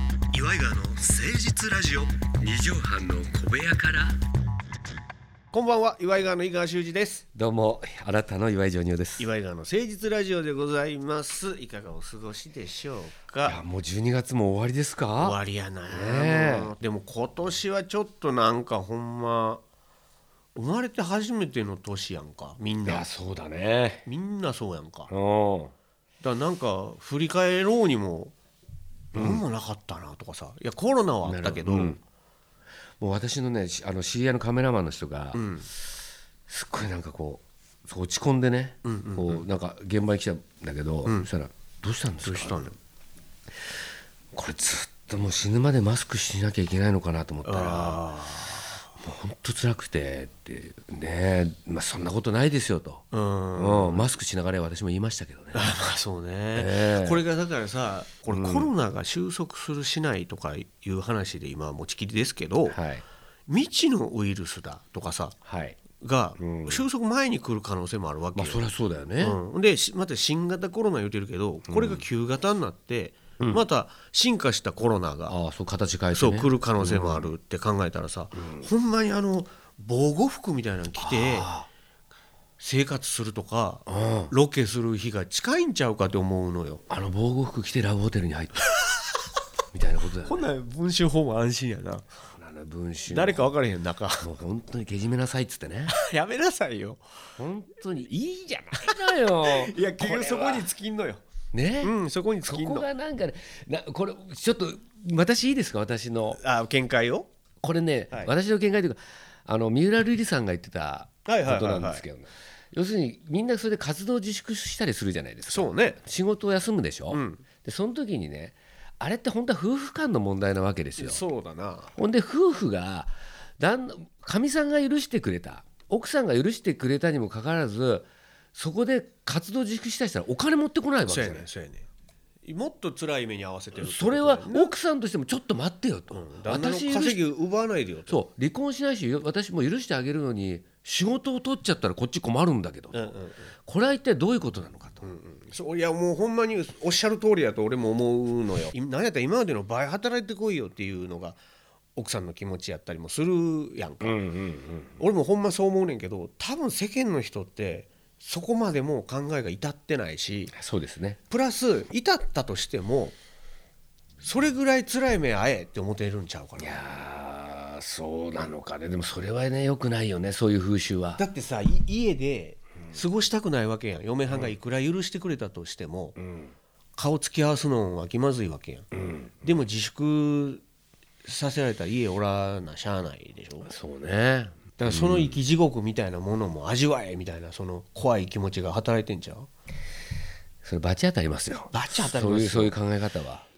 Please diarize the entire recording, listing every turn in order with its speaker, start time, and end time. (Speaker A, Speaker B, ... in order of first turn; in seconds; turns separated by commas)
Speaker A: 0.3-2.2, Speaker B: 2.4-4.2, Speaker A: 5.5-7.2, Speaker B: 7.3-9.3, Speaker A: 9.2-13.6, Speaker B: 13.5-15.4, Speaker A: 15.2-19.6, Speaker B: 15.9-16.7, Speaker A: 20.6-23.1, Speaker B: 22.9-24.0, Speaker A: 24.1-25.1, Speaker B: 25.1-25.7, Speaker A: 26.2-28.3, Speaker B: 29.1-29.4, Speaker A: 29.1-32.0, Speaker B: 31.3-32.0, Speaker B: 33.0-35.5, Speaker A: 35.4-35.7, Speaker B: 36.5-42.6, Speaker A: 38.8-39.5, Speaker A: 42.2-42.8, Speaker B: 44.3-48.0, Speaker A: 47.5-48.7, Speaker B: 49.0-53.0, Speaker A: 53.1-54.1, Speaker B: 53.6-55.7, Speaker A: 55.5-62.8, Speaker B: 56.5-57.2, Speaker B: 58.3-58.7, Speaker B: 62.7-63.0, Speaker A: 63.5-65.3, Speaker B: 65.5-65.8, Speaker A: 66.0-68.7, Speaker B: 66.4-66.8, Speaker B: 68.3-69.4, Speaker A: 69.2-75.4, Speaker B: 71.7-72.0, Speaker B: 75.3-77.3, Speaker A: 76.1-81.5, Speaker B: 78.4-78.7, Speaker B: 81.0-81.7, Speaker A: 82.6-86.8, Speaker B: 83.9-84.3, Speaker B: 86.9-88.6, Speaker B: 89.7-90.5, Speaker A: 90.2-92.0, Speaker B: 92.4-93.5, Speaker A: 93.1-94.3, Speaker B: 94.2-95.9, Speaker A: 95.9-97.0, Speaker B: 97.4-100.7, Speaker A: 98.8-101.2, Speaker B: 101.5-101.9, Speaker A: 101.8-102.9, Speaker B: 102.5-106.4, Speaker A: 106.4-107.3, Speaker B: 107.6-121.2, Speaker A: 111.3-112.0, Speaker A: 115.5-116.0, Speaker A: 117.1-117.5, Speaker A: 121.0-121.9, Speaker B: 122.0-131.5, Speaker A: 131.1-131.9, Speaker A: 132.4-134.7, Speaker B: 133.8-137.2, Speaker A: 136.1-138.2, Speaker B: 138.1-143.1, Speaker A: 142.9-143.5, Speaker B: 143.7-145.1, Speaker A: 145.0-151.4, Speaker A: 152.0-154.2, Speaker B: 154.0-155.0, Speaker A: 155.0-160.5, Speaker B: 160.5-161.2, Speaker A: 161.3-163.2, Speaker A: 164.2-166.8, Speaker B: 166.6-171.2, Speaker A: 171.2-176.2, Speaker B: 176.2-176.5, Speaker A: 177.0-178.9, Speaker B: 178.9-179.3, Speaker A: 179.4-180.6, Speaker A: 181.2-183.7, Speaker B: 183.7-185.4, Speaker A: 184.8-189.5, Speaker B: 190.6-193.4, Speaker A: 191.7-192.8